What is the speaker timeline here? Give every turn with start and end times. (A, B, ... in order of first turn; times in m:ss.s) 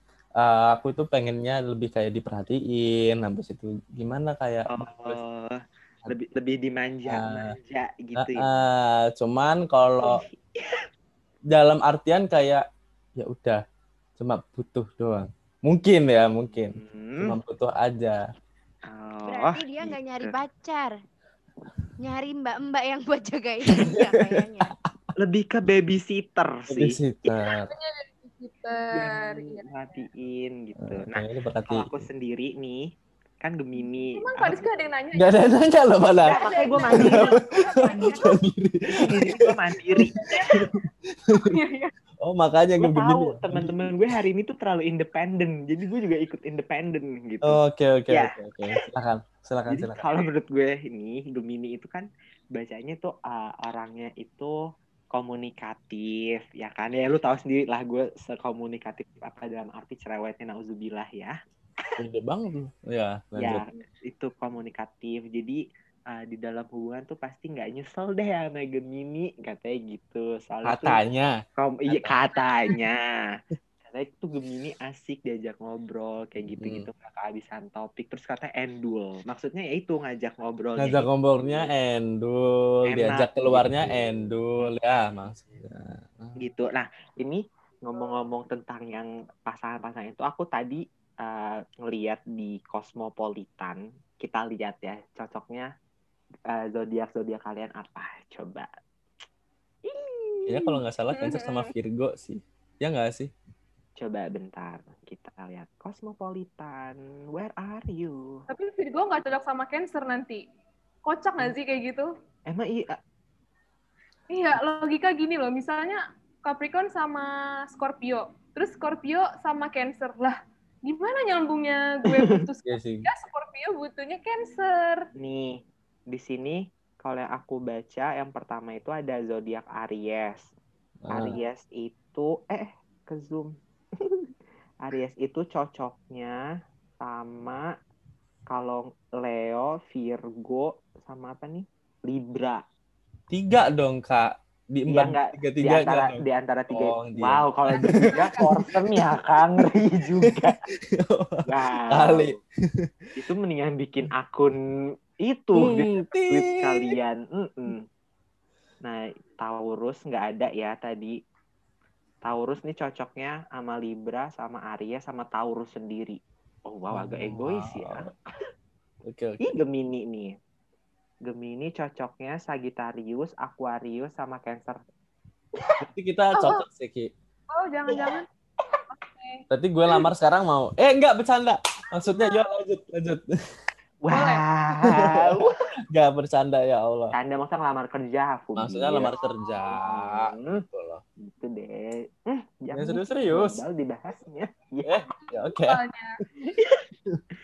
0:00.4-0:05.2 A
0:04.7-0:08.5 B
0:07.1-0:07.5 A
0:08.2-0:10.2 A
0:10.0-0:10.8 B
0:11.5-0:12.6 A
0:13.2-0:13.6 A
0:14.2-0:18.2 A
0:16.7-0:17.4 B
0:18.9-0:20.3 B
0:19.3-0:20.9 C
0:22.0-0:24.7 C
0:25.2-0:27.0 B
0:26.7-0:27.7 A
0:27.7-0:29.6 D
0:28.9-0:34.7 B
0:30.8-0:32.0 A
0:34.2-0:35.4 D
0:35.1-0:36.4 A
0:36.2-0:38.1 B
0:36.3-0:38.1 D
0:36.3-0:38.1 C
0:37.9-0:39.4 A
0:38.9-0:40.2 B
0:40.0-0:41.6 A
0:40.3-0:40.6 D
0:41.4-0:41.9 D
0:42.2-0:43.7 A
0:42.8-0:47.6 B
0:47.4-0:50.2 A
0:48.1-0:48.8 B
0:49.7-0:54.5 B
0:55.1-1:01.4 B
1:02.0-1:03.6 A
1:03.4-1:11.0 B
1:10.6-1:11.3 A
1:11.6-1:21.7 B
1:11.9-1:12.2 A
1:16.6-1:16.9 A
1:20.8-1:26.4 A
1:22.9-1:24.7 B
1:26.4-1:35.7 B
1:36.5-1:38.7 B
1:39.8-1:40.7 B
1:40.5-1:43.3 A
1:41.2-1:41.6 D
1:44.0-1:48.4 B
1:48.5-1:50.4 D
1:51.0-1:52.1 D
1:52.5-1:53.0 B
1:54.3-2:05.1 D
2:02.6-2:03.0 A
2:05.2-2:10.4 B
2:11.0-2:11.4 A
2:11.1-2:14.3 B
2:14.8-2:16.4 B
2:17.0-2:17.7 B
2:18.5-2:22.6 B
2:23.3-2:29.0 A
2:24.9-2:30.6 B
2:27.7-2:28.4 D
2:30.2-2:32.9 A
2:31.5-2:32.3 B
2:33.2-2:34.6 B
2:35.2-2:37.8 B
2:35.6-2:37.0 A
2:38.8-2:41.2 B
2:42.2-2:48.2 B
2:46.9-2:48.1 A
2:49.1-2:49.5 A
2:49.4-2:50.3 B
2:51.2-2:54.8 B
2:55.8-2:57.1 A
2:56.4-2:56.6 D
2:57.5-2:58.3 D
2:57.9-2:58.8 B
2:58.9-2:59.4 D
2:59.5-3:03.2 A
3:04.0-3:05.5 B
3:04.1-3:04.4 D
3:04.8-3:07.1 A
3:07.1-3:09.1 B
3:08.6-3:11.0 A
3:09.7-3:10.6 B
3:11.2-3:15.0 B
3:12.7-3:13.6 A
3:14.8-3:15.8 A
3:15.2-3:16.2 D